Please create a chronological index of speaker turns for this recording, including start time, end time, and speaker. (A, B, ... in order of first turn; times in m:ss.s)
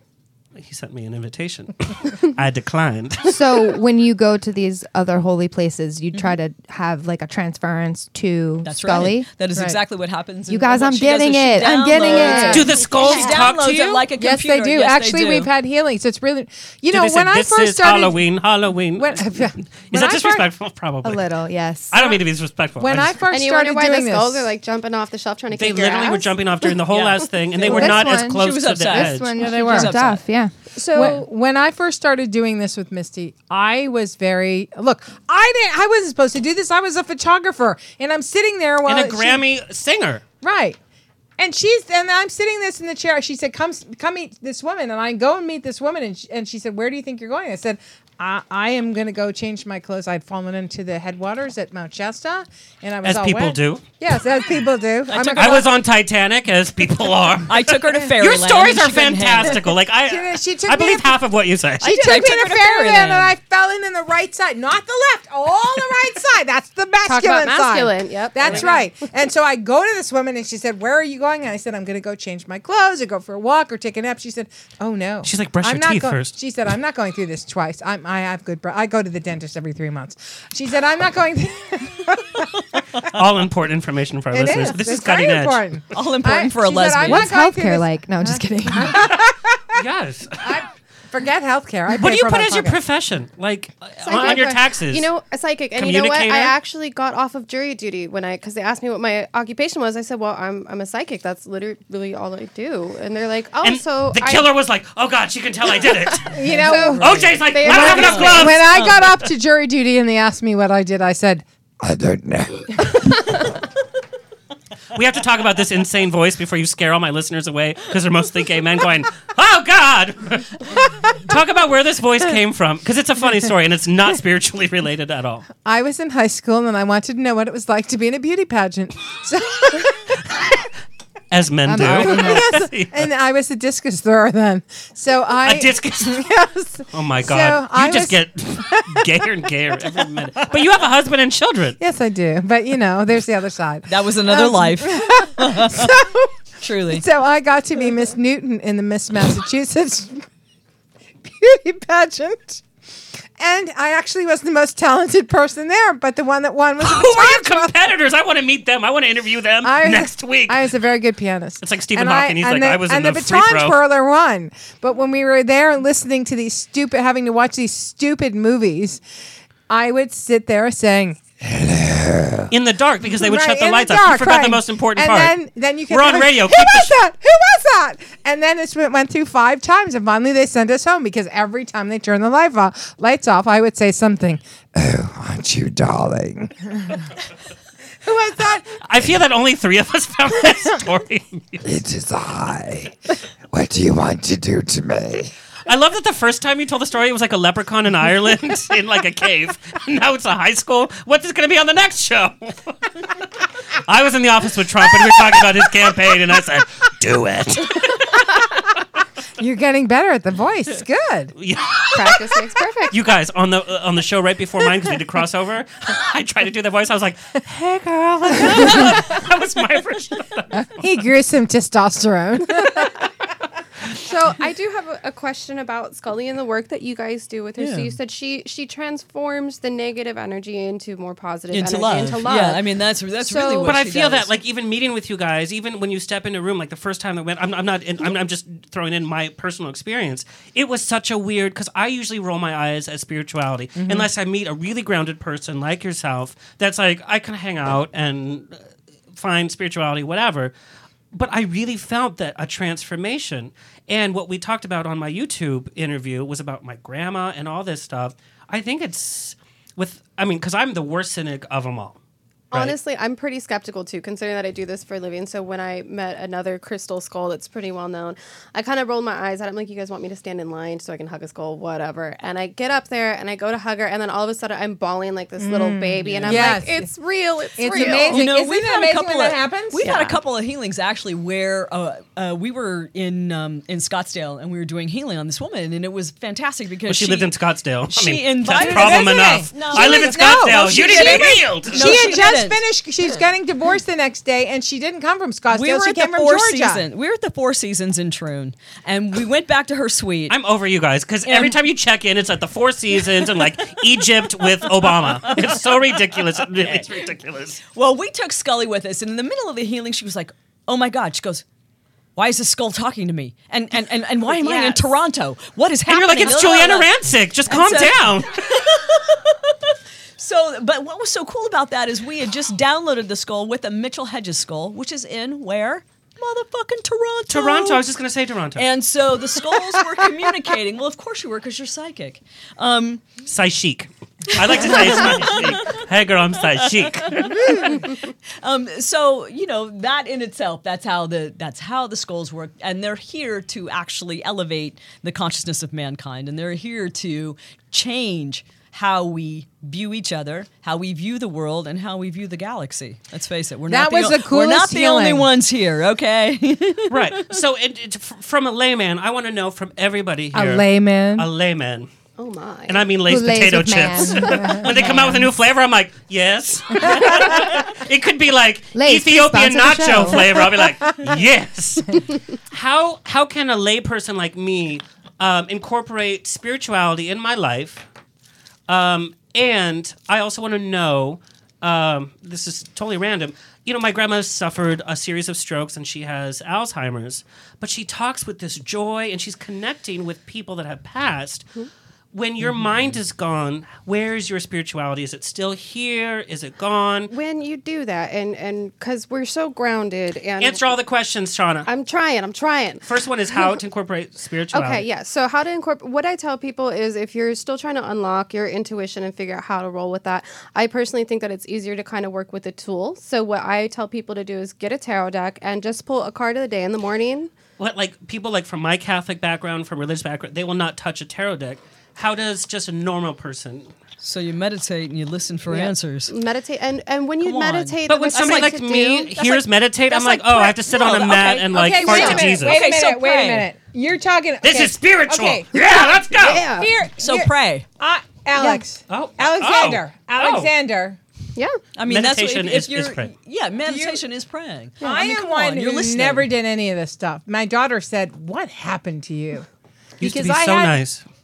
0:00.6-0:03.8 A
0:03.2-0:09.3 B
0:08.6-0:15.5 C
0:10.5-0:13.1 B
0:12.2-0:12.6 D
0:12.5-0:14.1 A
0:14.2-0:18.2 D
0:16.9-0:21.2 A
0:19.0-0:20.5 D
0:21.0-0:22.1 B
0:21.9-0:23.2 A
0:22.8-0:24.5 D
0:23.3-0:26.4 E
0:25.5-0:29.3 A
0:26.9-0:30.2 C
0:27.7-0:31.2 B
0:27.7-0:28.1 D
0:29.4-0:29.9 D
0:30.8-0:31.2 E
0:30.9-0:39.4 D
0:38.8-0:40.2 A
0:40.4-0:40.8 D
0:41.4-0:55.7 D
0:53.0-0:53.8 A
0:55.1-0:55.7 C
0:55.4-1:01.9 A
0:57.5-0:59.6 C
1:00.0-1:01.2 D
1:01.8-1:03.3 C
1:01.8-1:23.0 D
1:07.0-1:08.8 E
1:15.2-1:16.3 A
1:23.1-1:25.6 A
1:24.3-1:29.8 D
1:25.9-1:27.3 C
1:27.0-1:29.1 B
1:29.7-1:30.6 A
1:30.4-1:32.8 D
1:31.9-1:35.0 A
1:34.0-1:44.5 E
1:34.1-1:34.5 D
1:35.8-1:36.5 A
1:43.6-1:46.4 A
1:46.3-1:51.4 D
1:46.4-1:49.1 C
1:46.6-1:48.5 E
1:47.0-1:48.8 A
1:51.8-1:53.3 F
1:54.9-2:05.5 A
2:05.6-2:10.3 D
2:11.3-2:13.1 A
2:11.7-2:12.5 B
2:11.7-2:19.0 D
2:15.4-2:16.3 A
2:16.9-2:21.8 A
2:21.8-2:30.2 D
2:23.9-2:25.9 C
2:26.6-2:27.0 C
2:31.2-2:32.6 D
2:33.4-2:37.7 D
2:36.8-2:40.7 A
2:39.6-2:49.0 D
2:41.6-2:43.8 A
2:49.7-2:51.2 D
2:51.4-2:52.5 F
2:52.5-2:55.4 A
2:53.1-3:04.4 D
2:55.9-2:57.0 A
3:04.7-3:06.5 F
3:08.0-3:08.7 D
3:08.8-3:11.6 A
3:11.6-3:13.0 F
3:13.5-3:15.3 F
3:15.7-3:22.8 A
3:23.8-3:28.0 A
3:29.4-3:31.3 D
3:31.4-3:32.3 A
3:31.9-3:32.9 E
3:32.9-3:40.8 A
3:38.4-3:38.9 D
3:40.8-3:43.0 D
3:44.0-3:52.6 E
3:47.6-3:48.0 C
3:51.5-3:54.3 C
3:53.2-3:53.7 E
3:53.6-4:08.6 A
4:03.8-4:04.1 D
4:09.1-4:10.5 A
4:11.1-4:22.0 A
4:22.5-4:38.2 E
4:35.4-4:36.9 D
4:36.2-4:36.6 C
4:37.6-4:39.9 D
4:37.7-4:47.3 C
4:39.8-4:40.2 E
4:46.8-4:52.2 A
4:47.9-4:52.6 C
4:48.5-4:56.8 D
4:55.5-5:00.4 C
5:00.3-5:07.6 A
5:01.2-5:01.6 C
5:04.7-5:05.9 C
5:07.7-5:11.4 C
5:12.2-5:27.8 C
5:15.8-5:18.8 A
5:27.3-5:28.7 A
5:28.6-5:33.2 C
5:33.2-5:37.7 A
5:34.4-5:35.8 C
5:36.6-5:57.4 C
5:53.7-5:55.3 D
5:56.9-6:01.9 A
6:00.3-6:01.3 D
6:02.2-6:02.9 E
6:02.7-6:17.8 A
6:03.0-6:05.2 B
6:08.7-6:10.7 B
6:18.7-6:31.4 A
6:32.1-6:37.1 A
6:37.1-6:40.8 E
6:40.4-6:41.7 A
6:41.6-6:43.6 E
6:42.8-6:44.8 A
6:44.5-6:57.3 E
6:57.6-7:03.7 A
7:04.0-7:06.1 C
7:05.5-7:10.6 E
7:07.2-7:08.3 C
7:07.9-7:12.6 A
7:10.6-7:13.5 C
7:11.5-7:21.0 D
7:14.4-7:16.5 A
7:16.2-7:16.7 E
7:17.0-7:17.6 C
7:18.4-7:18.6 E
7:18.9-7:20.5 A
7:21.8-7:26.3 C
7:21.8-7:23.1 A
7:23.6-7:24.0 D
7:24.8-7:29.5 D
7:30.0-7:31.0 A
7:30.0-7:30.8 D